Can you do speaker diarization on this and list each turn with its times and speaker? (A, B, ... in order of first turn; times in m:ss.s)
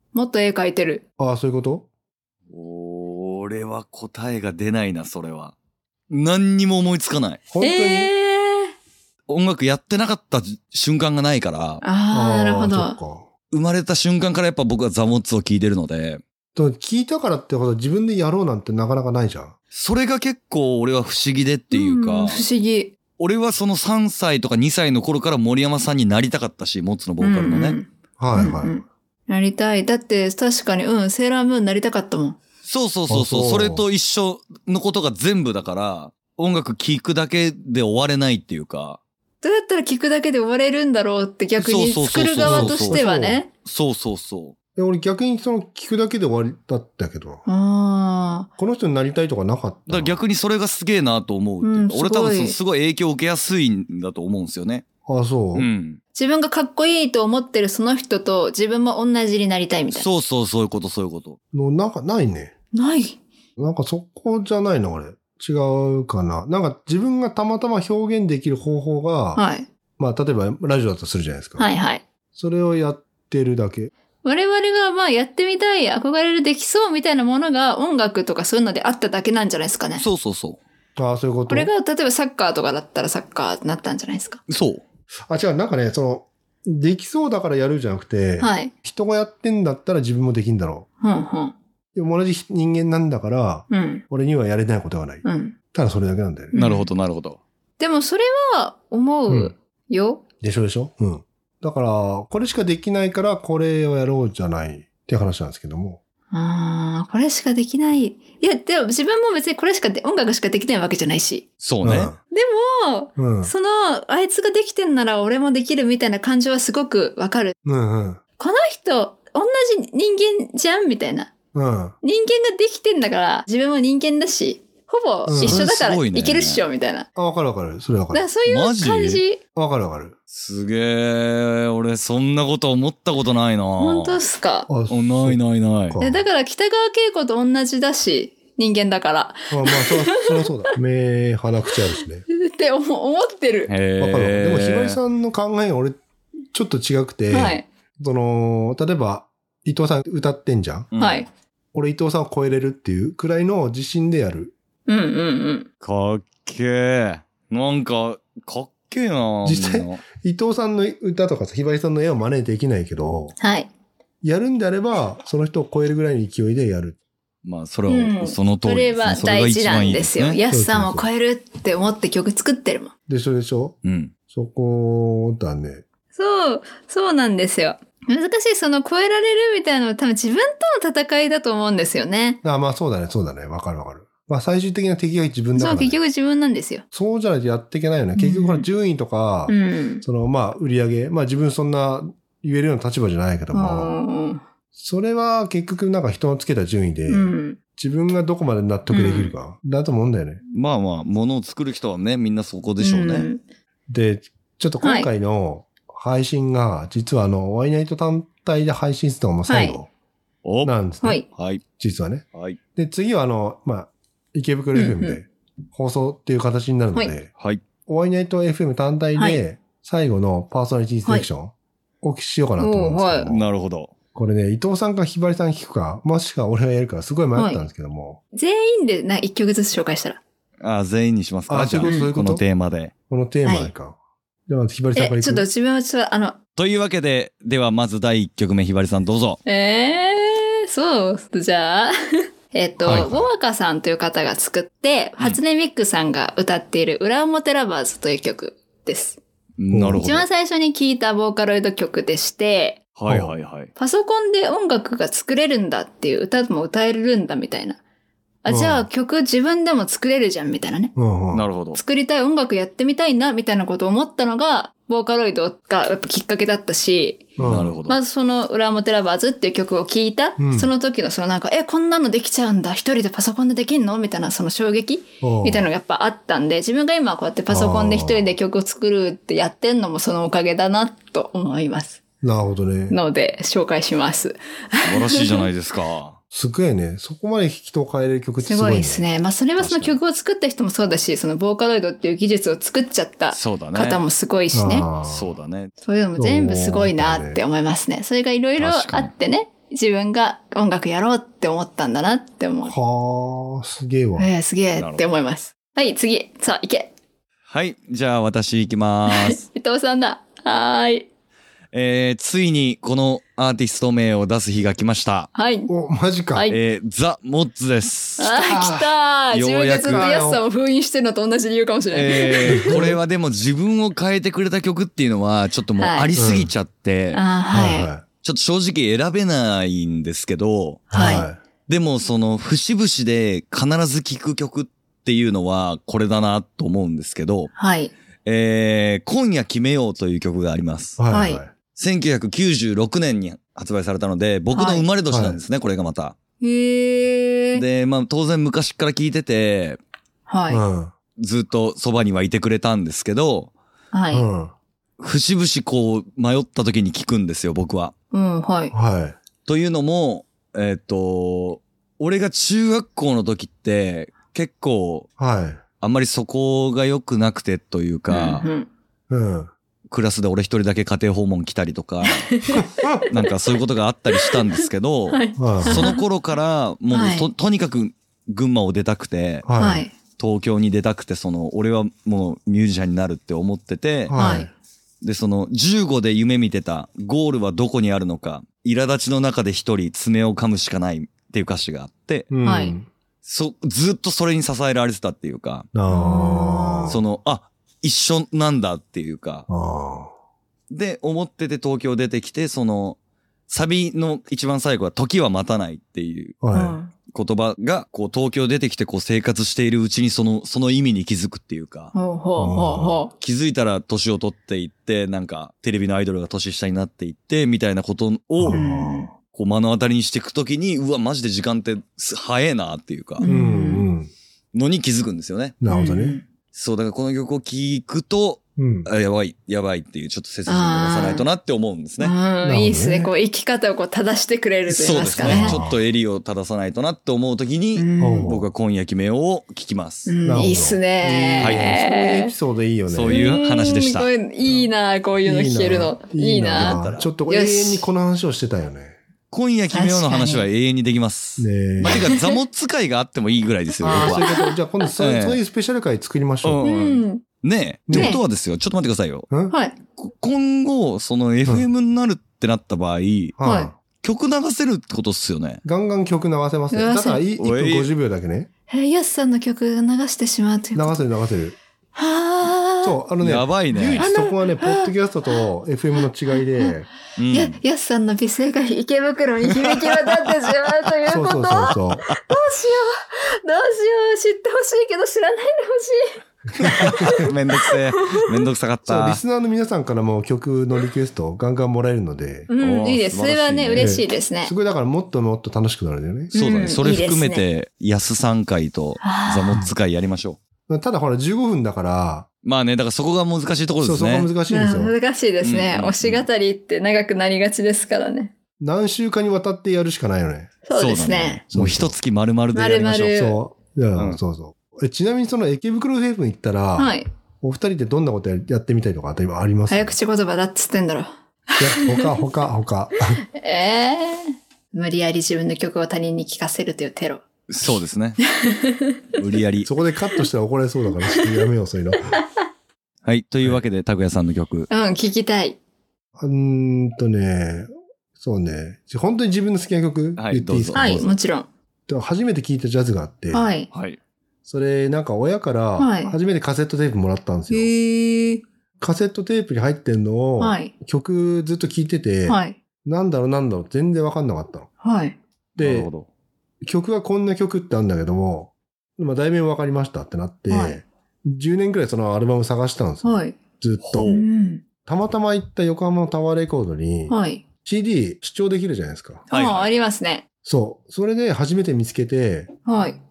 0:00.1-0:01.0 A
0:01.2-0:01.9 B
0:02.5-0:05.5 C
0:06.1-0:07.4 C
0:07.5-0:08.1 B
0:07.6-0:08.7 A
0:09.3-0:11.8 C
0:11.8-0:13.0 A
0:12.1-0:13.3 B
0:13.5-0:16.2 C
0:16.5-0:19.5 B
0:19.7-0:22.4 C
0:21.7-0:22.9 A
0:23.2-0:27.8 C
0:27.2-0:32.4 A
0:28.2-0:28.8 B
0:32.6-0:39.0 C
0:33.1-0:33.8 B
0:39.4-0:43.5 A
0:41.6-0:43.1 C
0:42.4-0:43.4 B
0:43.6-0:44.5 C
0:44.8-0:47.4 B
0:47.4-0:48.5 A
0:48.6-0:50.2 B
0:49.9-0:54.8 C
0:51.6-0:52.6 A
0:55.0-0:55.7 B
0:55.5-0:56.0 C
0:56.1-1:00.1 A
0:59.9-1:01.4 C
1:01.5-1:02.5 B
1:02.7-1:03.2 A
1:03.6-1:09.4 B
1:09.3-1:09.7 A
1:10.0-1:11.7 B
1:11.6-1:12.0 A
1:12.3-1:13.9 B
1:14.2-1:20.0 A
1:20.0-1:20.6 C
1:21.0-1:21.7 B
1:21.5-1:24.4 A
1:24.5-1:24.8 C
1:25.3-1:30.8 B
1:28.4-1:28.7 A
1:31.0-1:31.5 A
1:31.9-1:36.5 B
1:33.7-1:34.0 A
1:35.2-1:35.6 A
1:36.5-1:36.9 A
1:36.5-1:37.4 C
1:37.8-1:40.2 A
1:39.3-1:39.5 B
1:40.4-1:46.0 B
1:46.3-1:51.4 A
1:51.6-1:52.1 C
1:51.8-1:52.2 B
1:52.3-1:57.5 A
1:53.2-1:53.5 B
1:57.6-1:58.2 B
1:58.4-2:01.3 A
2:01.5-2:02.0 B
2:02.0-2:07.1 A
2:05.2-2:05.7 B
2:05.3-2:06.6 C
2:07.2-2:08.2 B
2:08.1-2:09.4 A
2:08.4-2:09.2 C
2:09.5-2:10.1 B
2:10.3-2:14.2 C
2:13.8-2:14.7 A
2:14.7-2:16.2 B
2:14.9-2:16.0 C
2:16.0-2:20.2 A
2:19.5-2:22.2 B
2:22.3-2:23.7 A
2:23.7-2:25.0 C
2:24.0-2:26.0 B
2:26.5-2:30.9 B
2:27.3-2:27.6 A
2:30.9-2:31.2 C
2:31.0-2:31.3 A
2:31.7-2:34.5 B
2:34.9-2:35.7 A
2:35.8-2:40.0 C
2:39.4-2:43.4 B
2:43.4-2:43.7 A
2:44.2-2:47.0 B
2:47.4-2:50.4 C
2:47.9-2:52.9 A
2:50.5-2:51.1 B
2:53.1-2:53.8 B
2:53.8-2:54.1 C
2:54.3-2:55.8 B
2:56.1-3:02.4 A
3:02.4-3:06.0 B
3:05.5-3:06.8 A
3:06.9-3:14.0 B
3:08.2-3:08.7 A
3:09.5-3:10.0 A
3:13.5-3:14.4 A
3:14.7-3:20.4 B
3:17.1-3:17.6 A
3:18.9-3:19.4 A
3:20.5-3:23.3 C
3:22.8-3:23.4 A
3:23.9-3:29.9 B
3:24.8-3:25.1 A
3:29.5-3:29.8 A
3:30.4-3:30.7 C
3:30.6-3:31.2 B
3:31.3-3:31.6 C
3:31.8-3:32.2 B
3:32.3-3:32.6 C
3:32.8-3:37.3 B
3:34.7-3:35.2 A
3:37.9-3:43.5 B
3:39.1-3:39.4 A
3:42.6-3:43.3 A
3:43.2-3:43.9 C
3:44.1-3:48.2 B
3:47.3-3:47.7 A
3:48.3-3:50.2 A
3:50.6-3:52.9 C
3:51.5-3:52.4 B
3:53.1-3:55.4 B
3:53.4-3:53.7 A
3:54.9-3:56.4 A
3:56.6-3:59.4 C
3:59.4-4:09.2 A
4:02.8-4:03.3 B
4:09.6-4:10.2 C
4:09.7-4:10.1 B
4:10.0-4:12.8 A
4:13.0-4:13.7 C
4:13.1-4:13.3 B
4:13.8-4:17.8 A
4:18.4-4:20.9 A
4:18.5-4:18.9 B
4:21.0-4:21.5 B
4:21.3-4:21.8 C
4:21.7-4:27.3 A
4:27.4-4:27.8 B
4:27.4-4:28.0 C
4:27.9-4:42.0 A
4:30.4-4:30.7 B
4:35.2-4:35.7 B
4:37.5-4:38.3 B
4:42.2-4:43.0 B
4:42.9-4:45.4 A
4:44.8-4:46.2 C
4:46.3-4:49.0 B
4:48.4-4:54.9 A
4:49.6-4:50.0 C
4:53.3-4:54.0 C
4:54.5-4:55.3 B
4:55.0-4:55.7 C
4:55.8-5:02.7 A
4:56.2-4:57.4 B
4:58.6-4:59.1 C
5:02.6-5:04.3 B
5:04.2-5:06.9 A
5:04.8-5:05.0 C
5:07.5-5:09.4 C
5:09.1-5:11.1 A
5:11.7-5:15.3 C
5:15.3-5:15.7 A
5:15.7-5:16.5 B
5:16.5-5:18.4 C
5:18.2-5:22.8 A
5:18.4-5:18.9 B
5:19.3-5:20.1 C
5:19.9-5:20.4 B
5:21.9-5:27.2 C
5:22.4-5:23.0 B
5:25.8-5:26.1 A
5:26.1-5:26.5 B
5:27.1-5:27.9 A
5:27.5-5:28.0 B
5:28.2-5:31.0 C
5:30.9-5:31.3 A
5:30.9-5:31.4 B
5:31.7-5:37.5 C
5:37.5-5:37.9 A
5:38.2-5:41.0 C
5:41.0-5:41.5 B
5:41.1-5:41.4 A
5:41.7-5:46.1 C
5:44.5-5:44.8 A
5:45.1-5:45.4 B
5:46.4-5:47.6 A
5:47.5-5:49.8 C
5:50.3-5:50.6 A
5:50.5-5:50.9 B
5:51.2-5:53.5 C
5:53.9-5:54.2 A
5:54.1-5:54.5 B
5:55.0-5:57.9 C
5:58.1-5:58.7 A
5:58.7-5:59.2 B
5:59.4-6:05.1 C
6:05.2-6:05.6 B
6:05.8-6:08.5 C
6:08.1-6:08.7 A
6:09.1-6:09.5 B
6:09.9-6:12.3 C
6:12.2-6:12.6 A
6:12.5-6:13.0 B
6:13.1-6:19.4 C
6:15.1-6:16.0 A
6:15.4-6:15.9 B
6:16.9-6:17.3 A
6:19.4-6:19.8 B
6:19.6-6:19.9 A
6:20.2-6:24.2 C
6:24.1-6:24.5 B
6:24.1-6:24.5 A
6:25.0-6:32.3 C
6:32.3-6:32.9 B
6:32.4-6:32.8 A
6:33.2-6:35.7 C
6:35.7-6:37.0 B
6:35.9-6:37.0 A
6:36.9-6:39.4 C
6:39.5-6:40.1 B
6:40.7-6:46.4 C
6:46.4-6:46.8 B
6:46.5-6:46.9 A
6:47.1-6:51.9 C
6:51.9-6:53.1 A
6:52.4-6:53.0 B
6:53.2-7:03.2 C
6:58.4-6:59.1 B
6:58.5-6:59.1 A
7:03.2-7:03.9 A
7:03.2-7:04.1 B
7:04.5-7:05.6 C
7:05.6-7:06.2 B
7:05.6-7:06.2 A
7:06.5-7:12.1 C
7:08.6-7:08.9 B
7:10.5-7:11.2 A
7:12.0-7:15.6 A
7:12.4-7:13.1 B
7:14.7-7:20.2 C
7:15.2-7:15.8 B
7:17.7-7:18.3 A
7:18.0-7:18.5 B
7:20.1-7:22.3 A
7:20.2-7:23.3 B
7:21.4-7:21.8 C
7:22.9-7:24.1 C
7:23.1-7:27.8 A
7:25.2-7:29.0 B
7:26.5-7:27.1 C
7:29.3-7:34.3 C
7:29.7-7:30.5 A
7:31.4-7:32.1 B
7:31.9-7:32.2 A
7:33.8-7:34.6 A
7:33.8-7:36.6 B
7:35.0-7:35.4 C
7:36.4-7:39.3 C
7:36.6-7:37.2 A
7:37.9-7:38.2 B
7:37.9-7:38.2 A
7:39.3-7:39.5 B
7:39.5-7:39.8 A
7:40.0-7:43.4 C
7:43.4-7:43.7 B
7:43.4-7:43.7 A
7:44.0-7:45.6 C
7:45.6-7:48.5 B
7:46.7-7:47.2 A
7:47.4-7:47.9 C
7:48.7-7:51.0 A
7:50.7-7:51.6 B
7:51.9-7:53.0 A
7:52.8-7:56.9 B
7:53.2-7:54.1 C
7:54.0-7:55.4 A
7:56.3-7:56.7 A
7:57.2-7:57.6 C
7:57.3-8:08.2 A
8:01.0-8:02.0 B
8:02.1-8:02.4 C
8:06.5-8:07.3 B
8:06.9-8:09.2 C
8:08.9-8:12.5 B
8:12.5-8:14.5 A
8:12.6-8:14.0 C
8:13.7-8:16.3 B
8:16.3-8:17.4 A
8:16.3-8:20.4 C
8:19.0-8:19.7 A
8:20.7-8:22.3 B
8:22.4-8:24.3 C
8:23.8-8:24.9 B
8:24.5-8:28.3 A
8:25.4-8:26.3 C
8:28.6-8:30.5 B
8:30.6-8:31.4 A
8:30.7-8:33.2 C
8:31.5-8:32.0 B
8:32.5-8:33.4 A
8:33.1-8:40.0 B
8:36.8-8:37.1 A
8:39.7-8:42.1 A
8:41.6-8:43.2 B
8:43.4-8:47.2 A
8:47.5-8:48.2 C
8:48.3-8:49.0 A
8:49.2-8:49.7 C
8:49.6-8:52.2 B
8:53.0-8:54.7 C
8:54.7-8:55.6 A
8:56.2-9:01.1 B
9:00.2-9:01.0 C
9:00.7-9:01.5 A
9:01.9-9:03.5 B
9:03.3-9:03.7 A
9:03.7-9:04.0 C
9:04.4-9:07.7 B
9:05.8-9:06.2 A
9:07.5-9:08.4 A
9:08.8-9:14.7 B
9:10.4-9:10.7 A
9:12.2-9:12.6 A
9:14.8-9:15.2 A
9:15.6-9:15.9 B
9:15.6-9:16.1 C
9:16.6-9:24.1 B
9:20.5-9:20.8 A
9:23.0-9:23.4 A
9:23.8-9:24.2 C
9:24.0-9:24.6 A
9:24.8-9:29.2 B
9:27.1-9:27.4 A
9:29.3-9:29.7 C
9:29.3-9:30.2 A
9:30.4-9:32.5 B
9:32.6-9:33.0 A